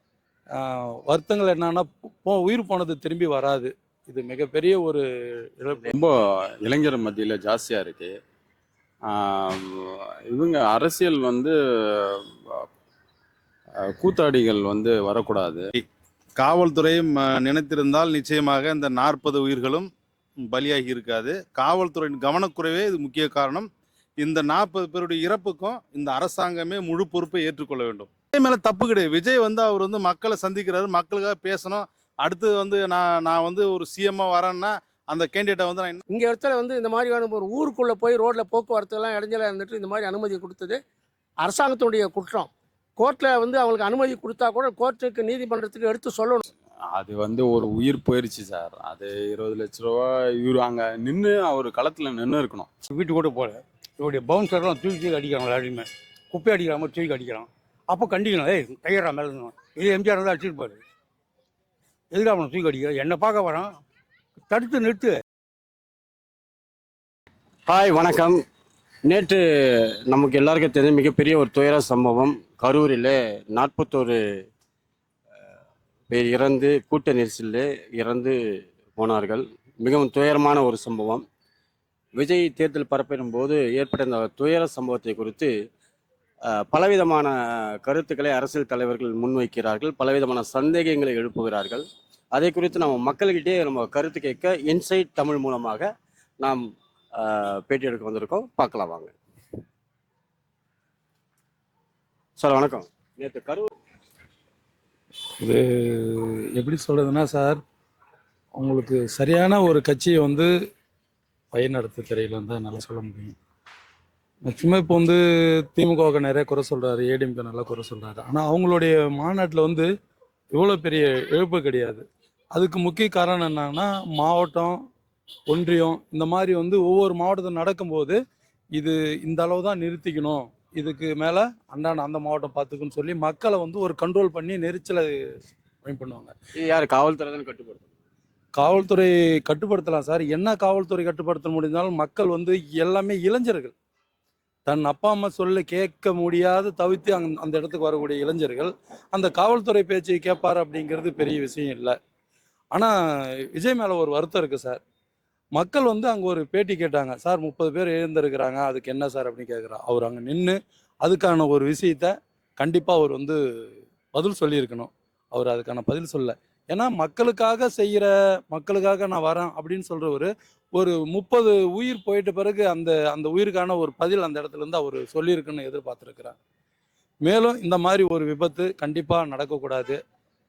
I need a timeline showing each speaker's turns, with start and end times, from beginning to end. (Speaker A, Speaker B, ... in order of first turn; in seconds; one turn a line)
Speaker A: 0.6-5.0
Speaker A: 5.6-5.9
Speaker B: 5.9-8.1
Speaker B: 9.1-12.7
Speaker B: 13.8-15.7
Speaker C: 16.4-19.9
Speaker C: 20.4-23.7
Speaker C: 24.2-36.0
Speaker D: 36.1-40.8
Speaker D: 41.4-46.4
Speaker B: 46.9-52.7
Speaker E: 52.9-60.8
Speaker E: 62.1-63.7
Speaker E: 64.5-65.2
Speaker F: 67.7-68.4
Speaker F: 69.0-69.4
Speaker F: 70.1-74.2
Speaker F: 76.1-78.4
Speaker F: 78.9-81.2
Speaker F: 82.2-85.5
Speaker F: 86.5-95.9
Speaker F: 97.2-99.1
Speaker F: 102.4-103.7
Speaker A: 105.4-107.6
Speaker A: 108.6-110.5
Speaker A: 111.5-113.3
Speaker A: 114.5-119.9
Speaker A: 120.5-124.8
Speaker A: 125.5-128.2
Speaker A: 128.7-135.2
Speaker A: 135.8-136.3
Speaker F: 136.6-137.9
Speaker A: 138.6-143.7
Speaker A: 144.7-152.0
Speaker A: 153.5-154.8
Speaker A: 155.6-163.4
Speaker A: 164.1-176.3
Speaker A: 177.2-180.0